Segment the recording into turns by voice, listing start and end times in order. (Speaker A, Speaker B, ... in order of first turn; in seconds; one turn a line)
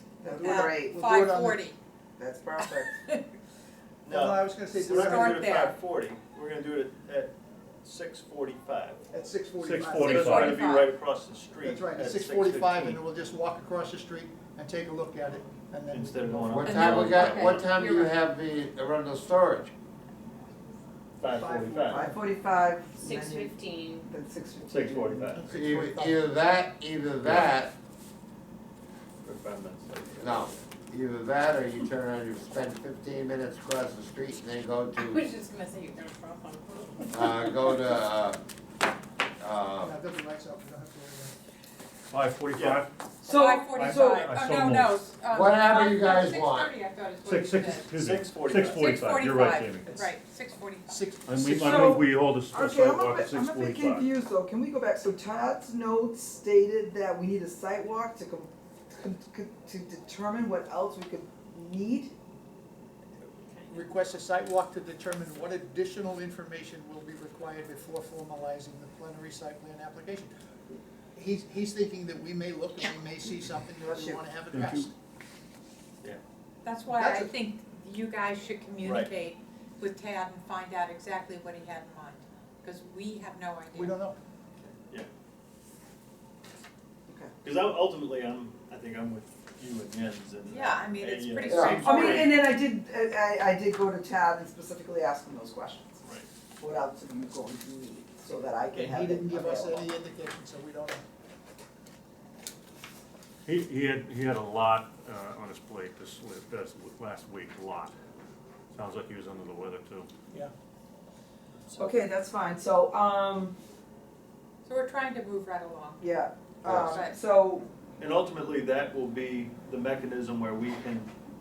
Speaker A: 0.2-1.0
Speaker B: 0.2-1.6
Speaker C: 0.4-1.8
Speaker A: 2.2-3.0
Speaker B: 4.1-5.4
Speaker D: 4.1-9.0
Speaker C: 4.8-5.8
Speaker B: 9.1-10.6
Speaker E: 9.6-10.6
Speaker C: 10.0-10.9
Speaker D: 10.1-13.0
Speaker B: 11.6-16.8
Speaker D: 15.9-17.7
Speaker F: 16.5-19.7
Speaker C: 16.6-17.5
Speaker D: 21.2-22.1
Speaker B: 21.3-22.1
Speaker A: 21.9-25.3
Speaker G: 23.0-24.0
Speaker D: 24.6-25.6
Speaker B: 25.4-26.2
Speaker F: 25.5-27.7
Speaker D: 27.3-27.5
Speaker D: 29.2-30.6
Speaker F: 30.2-35.3
Speaker G: 35.0-36.8
Speaker F: 37.1-38.4
Speaker F: 39.4-39.9
Speaker B: 39.8-41.4
Speaker E: 42.1-42.9
Speaker D: 42.5-42.8
Speaker A: 43.2-44.2
Speaker C: 43.3-47.9
Speaker E: 43.7-44.9
Speaker F: 45.3-46.7
Speaker E: 47.2-49.9
Speaker D: 47.9-49.1
Speaker C: 48.8-51.0
Speaker B: 49.9-50.1
Speaker B: 50.9-51.9
Speaker E: 51.3-54.1
Speaker A: 51.4-62.1
Speaker B: 63.7-70.3
Speaker B: 71.2-74.9
Speaker A: 73.8-74.2
Speaker E: 74.5-74.9
Speaker C: 76.7-84.0
Speaker B: 76.9-77.3
Speaker D: 78.8-79.1
Speaker B: 83.7-84.2
Speaker D: 84.6-85.1
Speaker D: 87.4-92.4
Speaker C: 90.5-92.4
Speaker F: 91.5-91.8
Speaker A: 91.8-96.0
Speaker A: 96.6-99.9
Speaker B: 98.7-101.0
Speaker E: 103.5-107.9
Speaker E: 108.7-110.1
Speaker A: 111.7-113.5
Speaker C: 114.7-116.0
Speaker A: 116.0-117.7
Speaker C: 116.9-117.1
Speaker D: 118.0-121.1